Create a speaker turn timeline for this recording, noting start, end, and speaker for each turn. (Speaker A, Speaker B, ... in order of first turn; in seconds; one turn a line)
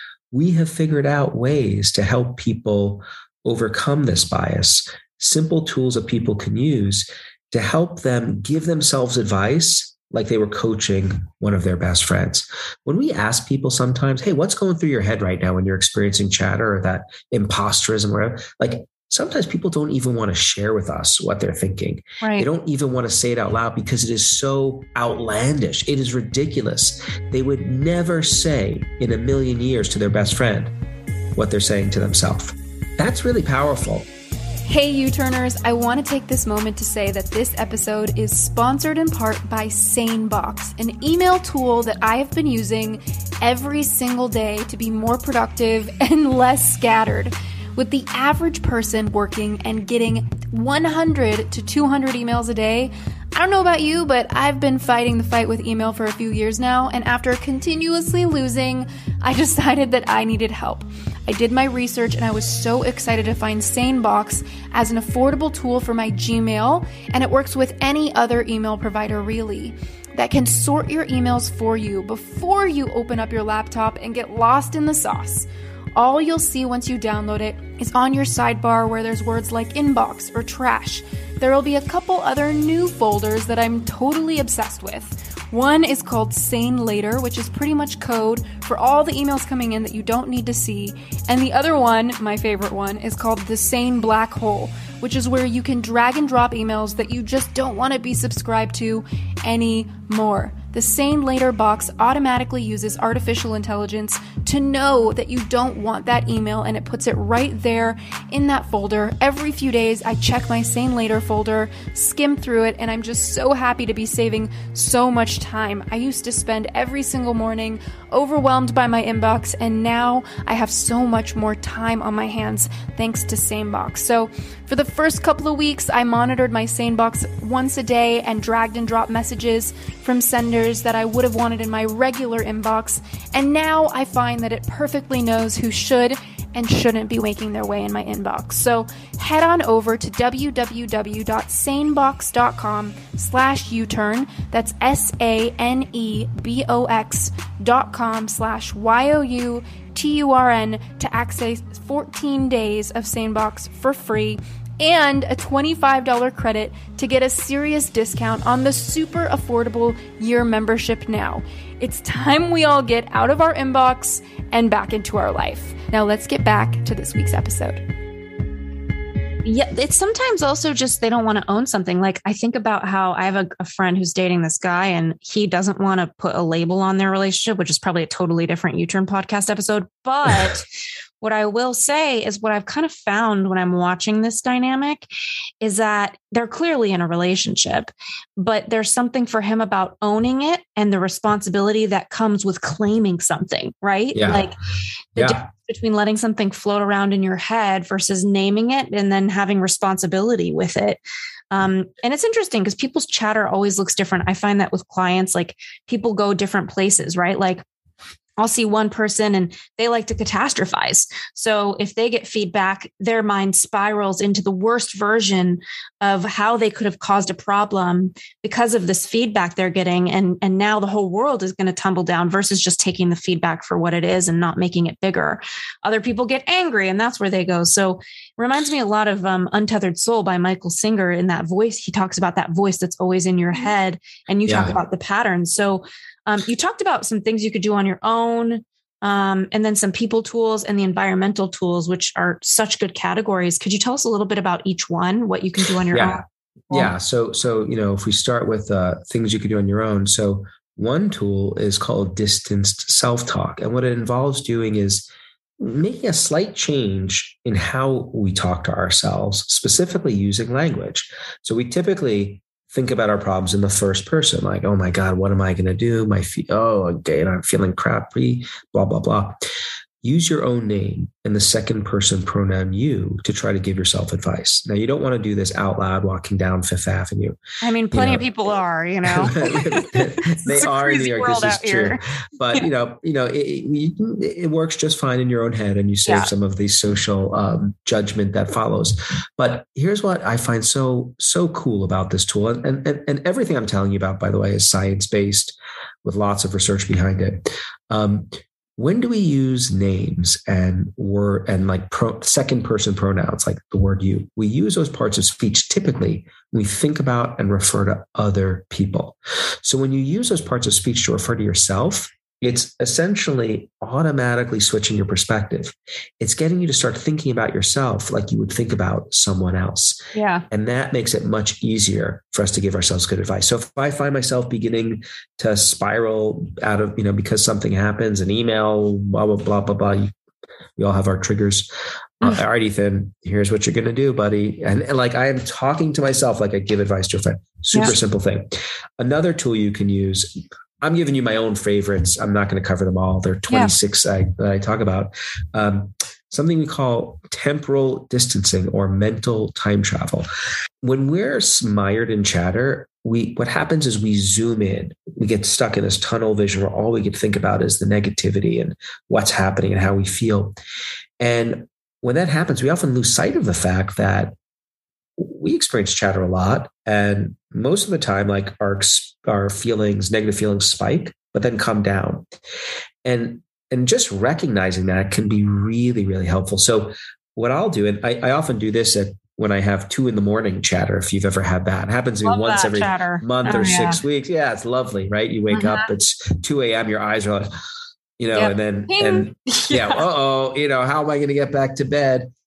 Speaker A: 0.3-30.7
Speaker B: 22.2-22.5
Speaker A: 31.4-34.1
Speaker C: 34.6-167.8
Speaker B: 169.4-180.7
Speaker B: 181.2-185.1
Speaker B: 185.6-194.6
Speaker A: 194.1-194.5
Speaker B: 195.1-201.0
Speaker A: 195.2-195.5
Speaker B: 201.5-207.6
Speaker B: 208.4-246.9
Speaker A: 234.5-234.8
Speaker A: 245.9-269.4
Speaker A: 270.0-277.4
Speaker B: 277.6-282.0
Speaker A: 277.9-278.2
Speaker A: 279.1-320.0
Speaker B: 320.1-320.4
Speaker A: 320.5-330.1
Speaker A: 330.8-331.7
Speaker A: 332.2-350.3
Speaker B: 343.5-343.7
Speaker A: 350.8-360.6
Speaker A: 361.2-364.4
Speaker A: 365.2-372.3
Speaker A: 373.0-387.5
Speaker B: 382.2-384.0
Speaker B: 385.5-385.9
Speaker A: 388.2-392.3
Speaker B: 388.3-390.0